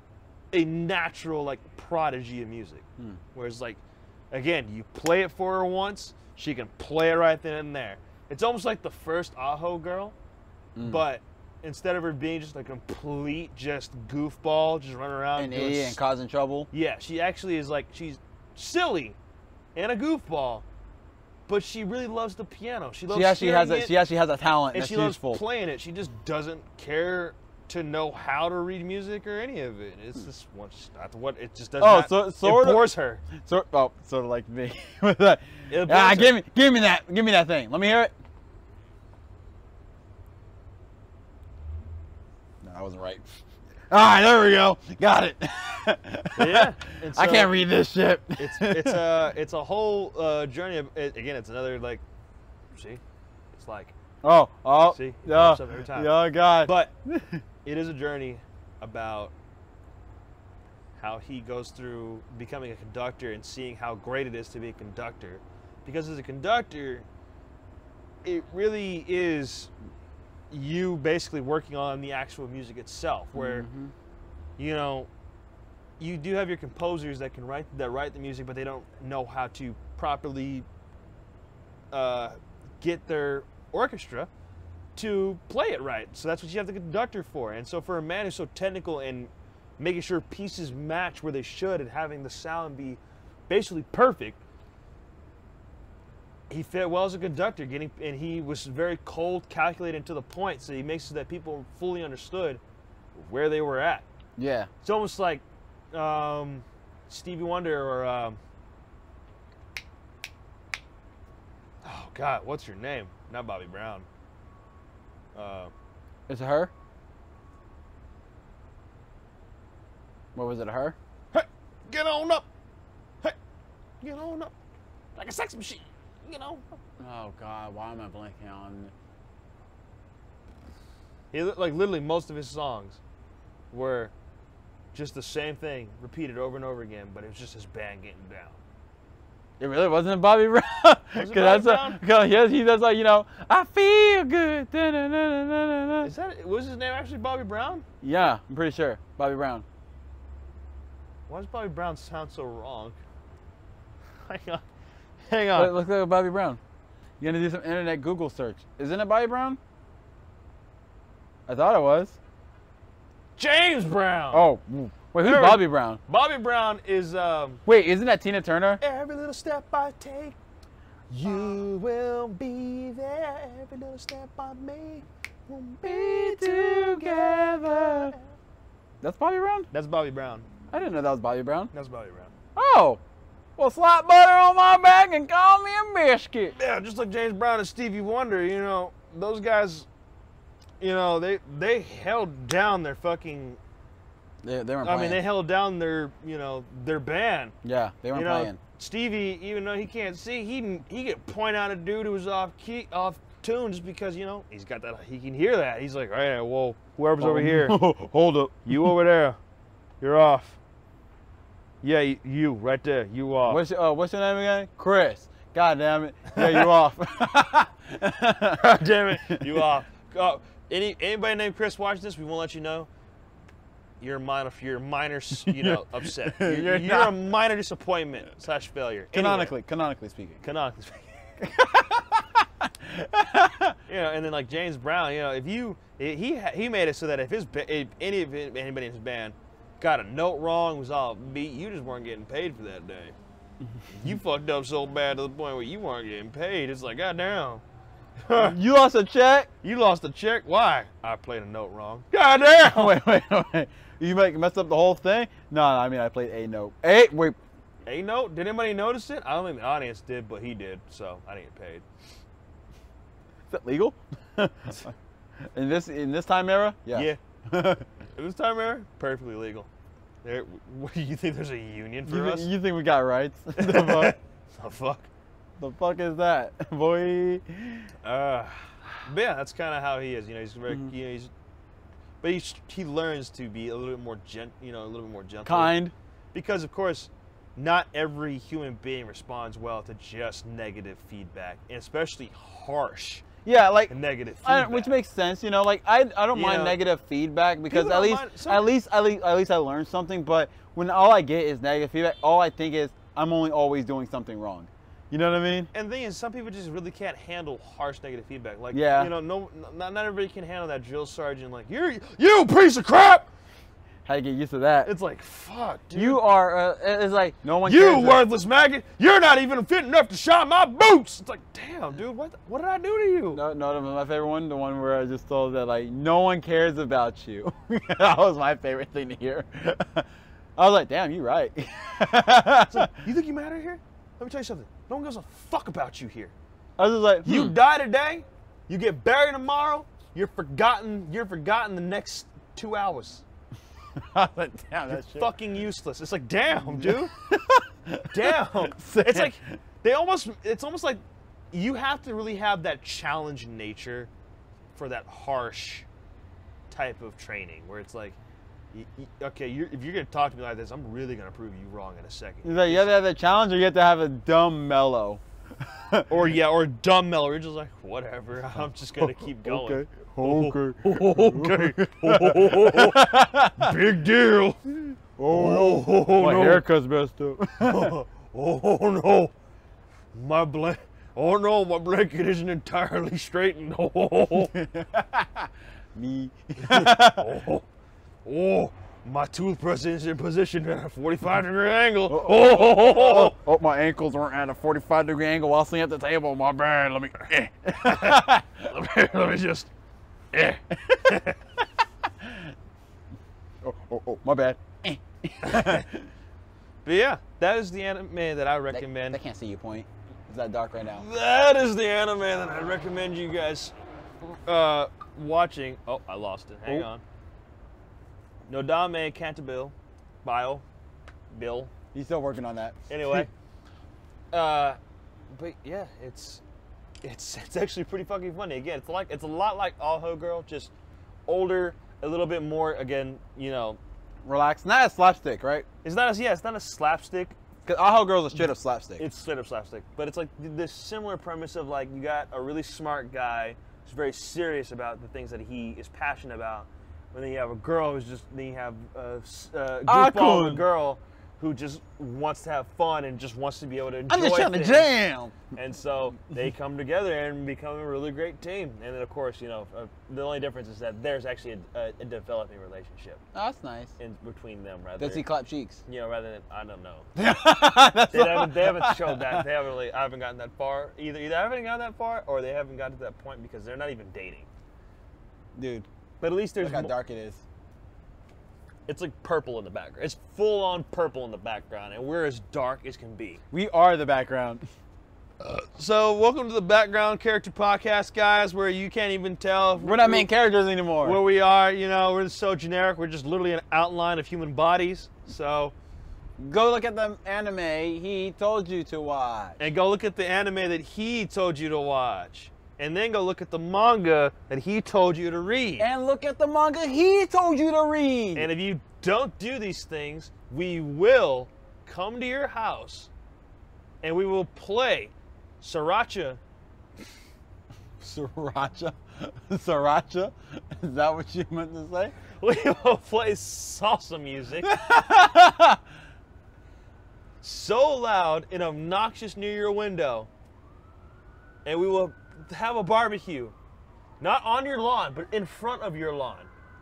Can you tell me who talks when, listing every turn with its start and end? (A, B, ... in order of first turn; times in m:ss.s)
0:00.5-0:10.1 A
0:10.8-0:11.0 B
0:10.8-0:16.0 A
0:15.4-0:16.7 B
0:16.7-0:19.2 A
0:19.7-0:20.6 A
0:21.5-0:24.0 A
0:23.1-0:25.4 B
0:24.7-0:33.2 A
0:31.8-0:38.1 B
0:35.7-0:36.4 A
0:42.6-0:43.2 B
0:43.9-0:49.0 B
0:46.4-0:47.6 A
0:48.4-0:52.0 A
0:52.7-0:53.0 A
0:53.5-0:53.9 A
0:54.2-0:57.4 B
0:54.8-0:56.9 A
0:57.6-0:59.3 A
1:01.0-1:07.0 A
1:08.2-1:09.7 A
1:10.5-1:13.6 A
1:13.3-1:13.9 B
1:14.6-1:15.1 A
1:16.0-1:20.6 A
1:21.9-1:24.3 A
1:24.9-1:34.4 A
1:36.5-1:42.6 A
1:43.1-1:44.0 A
1:44.4-1:44.7 B
1:44.8-1:48.4 A
1:51.8-1:54.1 A
1:55.3-1:55.7 A
1:56.3-1:56.7 B
2:00.3-2:01.0 B
2:01.3-2:02.5 A
2:04.0-2:04.5 A
2:05.1-2:06.6 A
2:07.0-2:08.9 B
2:11.3-2:13.0 A
2:13.7-2:14.1 A
2:14.9-2:18.6 A
2:19.6-2:26.1 B
2:21.2-2:22.0 A
2:26.0-2:27.8 A
2:28.0-2:29.6 B
2:31.3-2:33.0 A
2:34.2-2:34.6 A
2:35.3-2:35.8 A
2:35.5-2:36.6 B
2:37.2-2:39.6 B
2:41.5-2:42.2 B
2:43.4-2:44.4 A
2:44.3-2:46.0 B
2:45.2-2:47.6 A
2:47.6-2:48.8 B
2:48.8-2:50.4 A
2:51.1-2:58.3 A
2:55.8-2:58.1 B
2:59.0-2:59.7 B
2:59.7-3:00.5 A
3:00.7-3:01.7 B
3:01.7-3:02.3 A
3:02.6-3:03.0 B
3:03.6-3:06.6 B
3:06.6-3:09.9 A
3:10.8-3:13.6 A
3:14.4-3:15.2 B
3:14.8-3:17.5 A
3:17.6-3:18.6 B
3:18.1-3:27.8 A
3:27.2-3:28.9 B
3:28.7-3:29.4 A
3:30.0-3:30.6 A
3:31.8-3:33.6 A
3:33.5-3:38.7 B
3:36.4-3:36.7 A
3:38.6-3:42.9 A
3:44.0-3:49.5 A
3:45.4-3:47.1 B
3:49.1-3:50.4 B
3:50.4-3:51.1 A
3:51.4-3:53.8 B
3:53.9-4:03.2 A
4:03.7-4:04.1 B
4:03.9-4:07.6 A
4:08.2-4:08.6 A
4:08.3-4:09.5 B
4:09.6-4:13.0 A
4:12.6-4:17.4 B
4:17.8-4:21.8 A
4:23.5-4:24.9 B
4:25.5-4:27.9 B
4:26.9-4:27.2 A
4:28.2-4:29.7 A
4:30.2-4:32.5 A
4:32.1-4:34.2 B
4:33.6-4:35.1 A
4:35.6-4:37.9 B
4:38.0-4:41.3 A
4:42.2-4:45.7 A
4:45.4-4:45.9 B
4:46.3-4:53.2 A
4:53.4-5:05.7 B
4:53.9-4:54.9 A
4:56.3-4:56.8 A
4:57.7-4:58.7 A
5:05.7-5:13.3 A
5:08.7-5:09.1 B
5:14.0-5:14.9 B
5:14.8-5:16.2 A
5:15.9-5:18.3 B
5:17.6-5:23.4 A
5:23.3-5:33.0 B
5:32.7-5:36.3 A
5:36.8-5:37.5 B
5:37.2-5:43.2 A
5:44.0-5:45.3 B
5:44.9-5:47.1 A
5:46.8-5:49.6 B
5:48.1-5:51.0 A
5:51.5-5:54.1 A
5:54.7-5:55.8 A
5:56.7-5:58.2 A
5:58.7-6:02.9 A
6:02.4-6:06.1 B
6:06.1-6:14.6 A
6:09.0-6:13.7 B
6:15.2-6:17.9 B
6:15.3-6:16.6 A
6:17.6-6:19.3 A
6:20.1-6:24.5 A
6:24.5-6:27.4 B
6:26.6-6:27.6 A
6:28.2-6:33.4 A
6:32.1-6:38.7 B
6:37.8-6:39.7 A
6:40.3-6:41.4 A
6:40.8-6:41.1 B
6:42.2-6:42.5 B
6:43.6-6:46.1 B
6:45.4-6:45.8 A
6:46.8-6:49.2 A
6:48.7-6:51.0 B
6:51.0-6:53.7 A
6:54.4-6:57.0 A
6:58.5-7:00.6 A
7:01.3-7:01.7 A
7:01.9-7:03.3 B
7:02.9-7:03.3 A
7:04.3-7:04.8 A
7:05.3-7:06.4 A
7:07.0-7:10.7 A
7:11.3-7:13.8 A
7:14.2-7:15.6 B
7:15.8-7:17.4 A
7:17.6-7:19.1 B
7:19.0-7:34.9 A
7:29.9-7:30.6 B
7:34.1-7:35.4 B
7:35.5-7:43.2 A
7:43.3-7:43.9 B
7:44.0-7:45.2 A
7:45.0-7:45.8 B
7:45.9-7:47.1 A
7:47.2-7:49.4 B
7:48.1-7:54.5 A
7:55.6-7:55.8 B
7:56.2-7:56.9 A
7:56.6-7:57.4 B
7:58.9-8:03.4 A
8:03.5-8:04.6 B
8:05.4-8:10.3 A
8:09.8-8:11.2 B
8:11.0-8:15.7 A
8:16.4-8:19.6 B
8:19.6-8:25.9 A
8:25.8-8:28.5 B
8:28.3-8:33.1 A
8:34.0-8:36.4 A
8:38.0-8:42.1 B
8:42.3-8:44.8 A
8:44.6-8:45.8 B
8:47.4-8:50.3 A
8:51.6-8:53.5 A
8:54.2-8:56.5 A